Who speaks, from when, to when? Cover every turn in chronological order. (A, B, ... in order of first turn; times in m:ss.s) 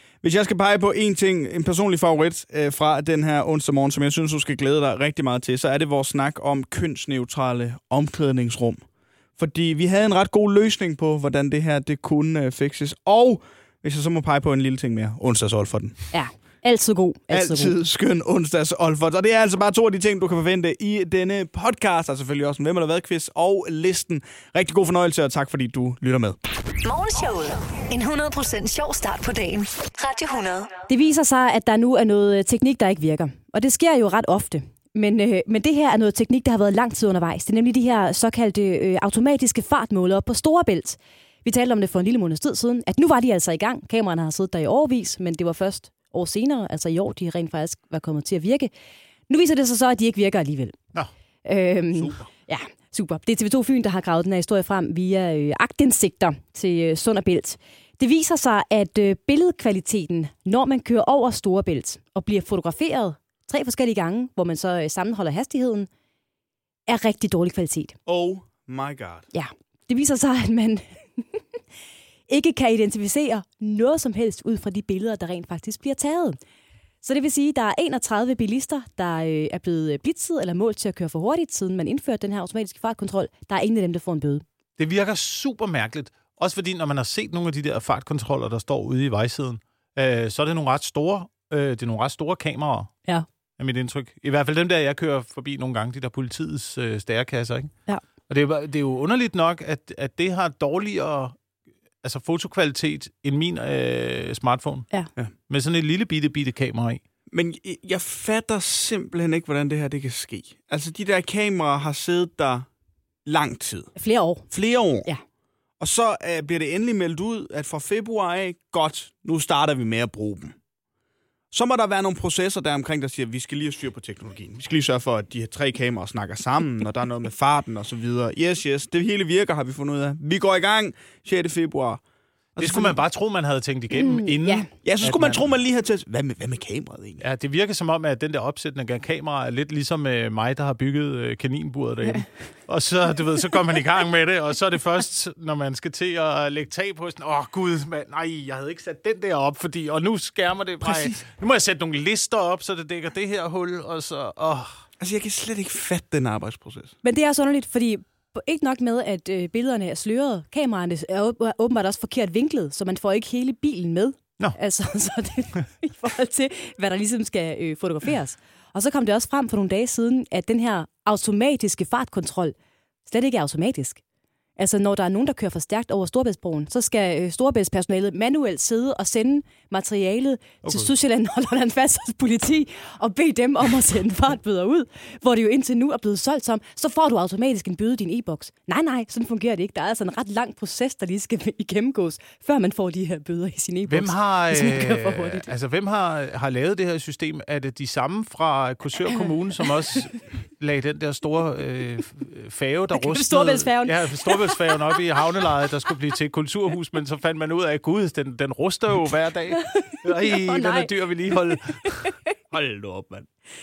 0:00.2-0:08.8 A
0:09.4-0:16.0 A
0:16.1-0:17.7 B
0:17.3-0:26.4 A
0:26.8-0:30.8 C
0:30.9-0:48.7 B
0:49.3-0:50.8 B
0:51.4-1:05.9 B
0:52.0-0:52.2 A
1:06.9-1:08.0 B
1:08.0-1:09.2 A
1:09.3-1:11.6 B
1:12.3-1:16.4 B
1:17.0-1:24.4 B
1:24.8-1:32.9 D
1:33.6-1:37.7 D
1:38.3-1:41.4 D
1:42.0-1:44.8 D
1:45.5-1:47.0 D
1:47.3-1:52.7 A
1:53.2-1:53.9 A
1:54.0-1:54.5 B
1:54.5-1:55.1 A
1:55.8-2:00.5 A
2:01.5-2:12.0 A
2:12.6-2:13.0 A
2:12.6-2:15.4 D
2:13.9-2:14.7 B
2:14.8-2:17.2 A
2:17.2-2:34.8 D
2:30.8-2:31.2 A
2:35.0-2:36.9 A
2:37.0-2:54.0 B
2:54.6-3:15.5 B
3:00.6-3:00.9 D
3:13.9-3:32.1 D
3:22.9-3:24.8 B
3:29.7-3:32.3 B
3:32.5-3:33.3 A